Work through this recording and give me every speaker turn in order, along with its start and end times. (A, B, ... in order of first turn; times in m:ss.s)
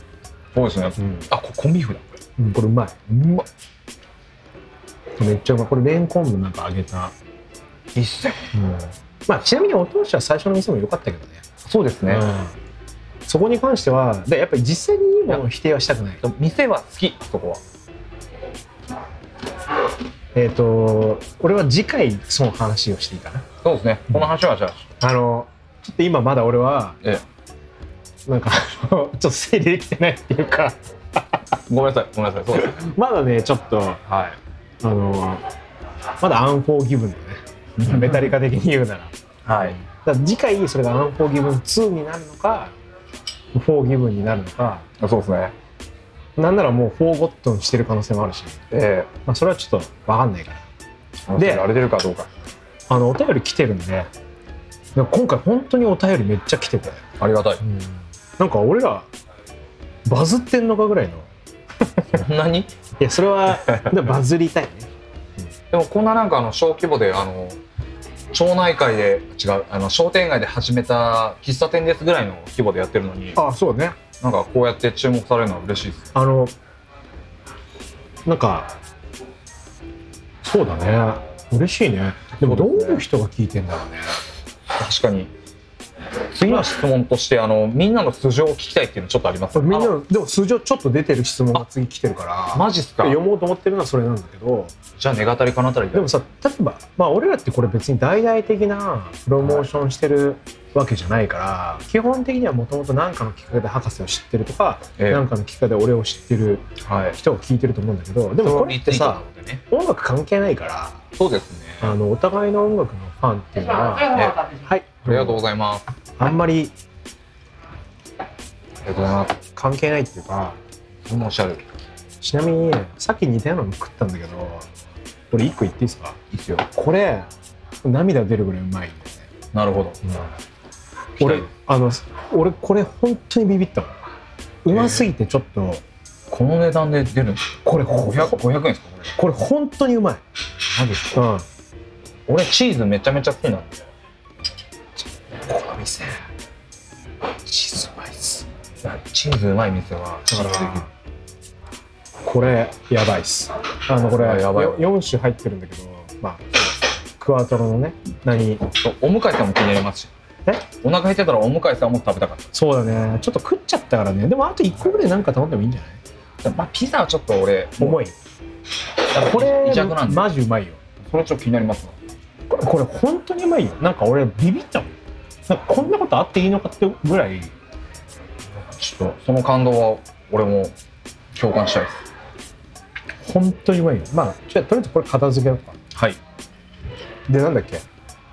0:00.5-0:02.2 A
0:01.0-0:01.3 B
0:02.4-0:03.4 B
0:05.2-0:07.1 B
0:07.9-0:08.5 A
0:08.5-0:11.4 B
0:11.6-0:12.2 A
0:12.1-0:12.5 B
0:13.3-0:16.2 B
0:16.2-0:17.6 A
0:20.3-0:23.4 B
0:23.6-0:24.8 A
0:25.0-0:27.0 B
0:28.2-0:31.4 B
0:31.7-0:32.8 A
0:32.6-0:34.0 B
0:34.1-0:34.4 A
0:34.8-0:35.4 B
0:36.2-0:39.1 B
0:37.8-0:38.3 A
0:39.4-0:39.8 A
0:39.6-0:42.7 B
0:43.5-0:44.8 B
0:45.0-0:45.5 A
0:46.4-0:48.6 B
0:48.7-0:49.1 A
0:49.2-0:50.6 B
0:51.3-0:52.3 A
0:51.4-0:51.7 B
0:52.9-0:54.1 B
0:54.9-0:57.0 B
0:57.2-0:57.6 A
0:57.6-0:59.1 B
1:00.0-1:01.3 B
1:02.1-1:02.7 A
1:03.0-1:04.9 B
1:03.7-1:04.1 A
1:05.7-1:07.6 A
1:08.3-1:13.4 A
1:13.4-1:14.0 B
1:14.2-1:16.1 A
1:16.1-1:16.5 B
1:18.2-1:18.7 B
1:20.4-1:24.2 B
1:22.4-1:23.0 A
1:24.7-1:25.3 A
1:26.3-1:30.0 A
1:26.4-1:26.8 B
1:29.5-1:34.7 B
1:32.5-1:33.2 A
1:35.0-1:36.1 A
1:35.9-1:51.0 B
1:39.4-1:39.7 A
1:45.0-1:45.2 A
1:46.8-1:47.2 A
1:48.4-1:49.6 A
1:51.2-1:51.9 A
1:51.8-1:55.4 B
1:54.1-1:54.4 A
1:55.0-1:55.9 A
1:56.2-1:56.7 B
1:58.8-1:59.4 A
1:59.5-2:00.6 B
2:01.0-2:01.6 A
2:02.2-2:04.6 B
2:05.3-2:06.2 B
2:06.3-2:06.6 A
2:06.7-2:07.3 B
2:07.8-2:09.2 B
2:09.5-2:10.0 A
2:11.2-2:11.5 A
2:11.2-2:13.9 B
2:14.6-2:15.8 B
2:14.7-2:15.1 A
2:16.3-2:19.1 A
2:17.6-2:18.4 B
2:19.2-2:20.2 B
2:20.7-2:21.2 A
2:21.1-2:21.4 B
2:22.3-2:23.8 A
2:25.5-2:26.2 B
2:27.4-2:28.4 B
2:28.8-2:30.9 A
2:30.3-2:30.9 B
2:32.2-2:36.6 B
2:34.1-2:34.9 A
2:37.2-2:38.6 B
2:38.7-2:40.1 A
2:40.8-2:42.5 A
2:42.5-2:46.0 B
2:46.4-2:48.0 A
2:47.8-2:48.1 B
2:49.1-2:50.3 A
2:49.1-2:50.8 B
2:51.0-2:51.9 A
2:52.5-2:54.9 B
2:55.5-2:57.5 B
2:58.5-3:00.7 A
3:01.4-3:02.0 A
3:03.2-3:05.8 B
3:05.9-3:06.2 A
3:07.3-3:07.8 B